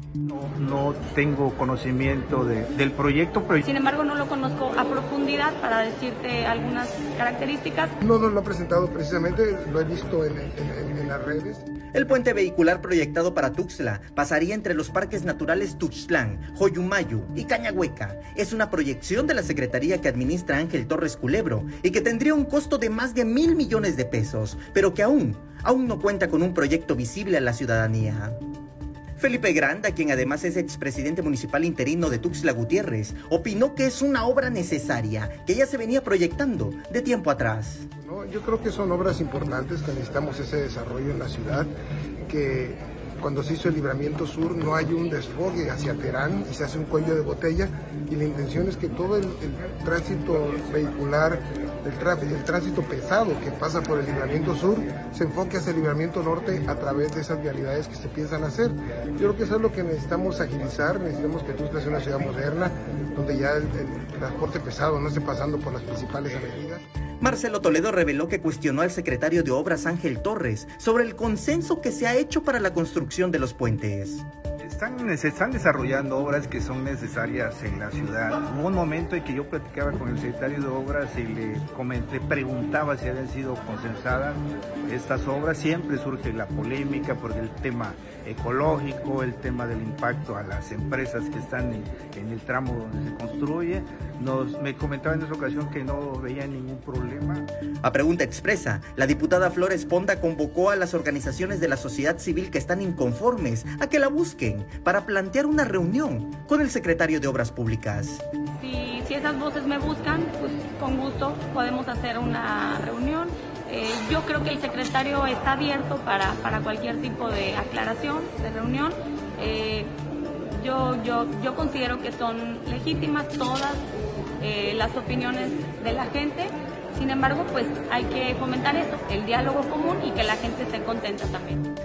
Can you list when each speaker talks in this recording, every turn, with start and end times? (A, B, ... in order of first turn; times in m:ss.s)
0:00.2-0:03.6 A
0:03.6-0:08.0 B
0:08.0-0:11.6 C
0:11.9-0:28.4 D
0:29.2-0:37.9 D
0:38.0-0:41.7 C
0:42.3-1:06.8 C
1:07.2-1:14.2 D
1:14.6-1:37.5 A
1:37.8-1:48.2 D
1:48.6-2:03.9 B
2:04.4-2:11.7 B